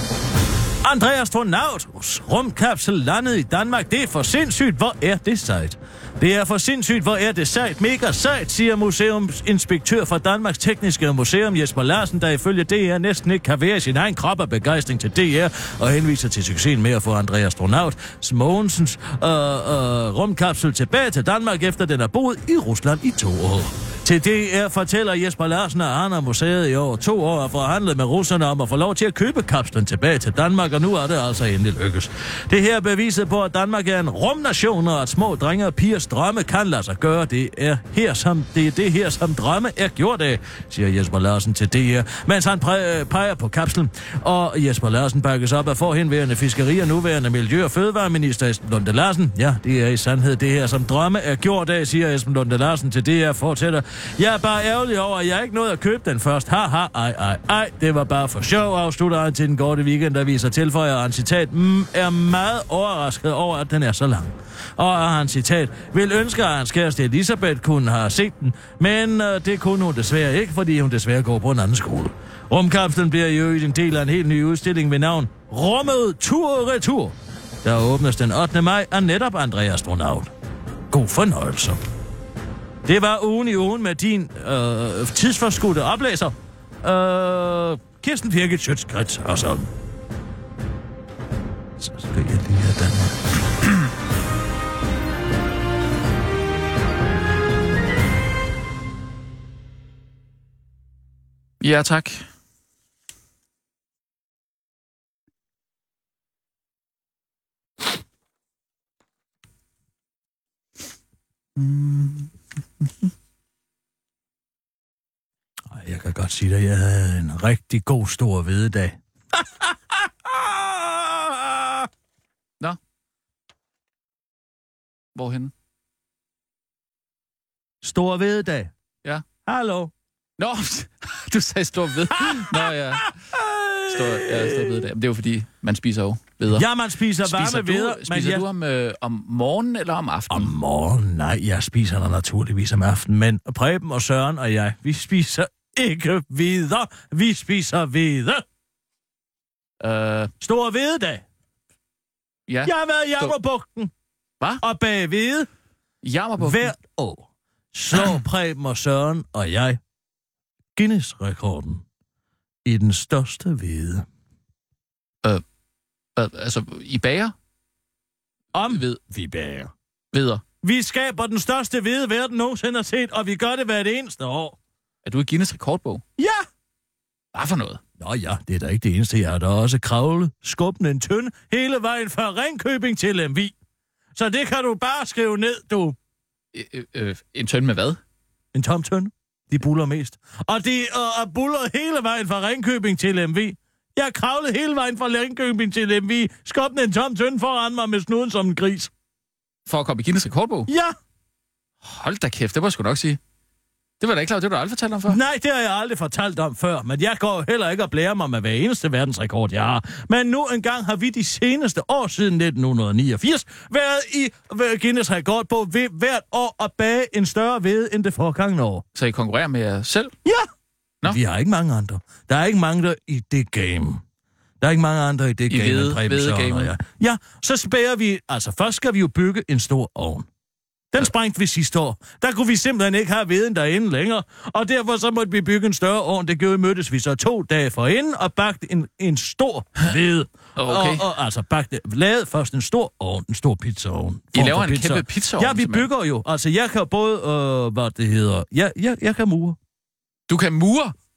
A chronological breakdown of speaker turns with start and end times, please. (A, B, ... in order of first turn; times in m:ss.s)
0:00.8-1:20.3 A
1:20.9-1:21.8 A
1:22.8-1:29.7 A
1:31.8-1:33.2 A
1:41.6-1:42.2 B
1:51.6-1:53.1 B
1:55.7-2:01.9 A
2:05.2-2:05.5 B
2:07.8-2:08.7 A
2:09.5-2:09.9 A
2:10.4-2:13.1 B
2:12.2-2:14.8 A
2:13.9-2:16.7 B
2:16.5-2:18.4 A
2:17.2-2:20.5 B
2:20.3-2:28.4 A
2:29.8-2:30.3 B
2:30.4-2:31.2 A
2:32.5-2:33.3 B
2:32.6-2:33.9 A
2:34.6-2:35.5 A
2:36.0-2:36.7 B
2:36.4-2:39.8 A
2:40.8-2:41.8 A
2:42.6-2:44.1 A
2:46.2-2:47.3 B
2:48.5-2:49.7 A
2:48.7-2:49.0 B
2:50.1-2:50.4 B
2:50.6-2:54.6 A
2:55.0-2:56.0 B
2:56.2-2:56.5 A
2:57.3-2:57.8 B
2:58.0-3:03.5 A
3:04.2-3:06.0 A
3:06.5-3:08.0 B
3:08.5-3:18.9 A
3:19.7-3:20.7 B
3:20.7-3:21.0 A
3:21.8-3:23.2 B
3:24.0-3:25.2 B
3:25.1-3:38.8 A
3:39.0-3:40.1 B
3:41.0-3:44.0 A
3:44.6-3:50.3 A
3:45.5-3:46.7 B
3:50.9-4:09.6 A
4:00.6-4:01.0 B
4:04.3-4:05.9 B
4:10.3-4:11.0 B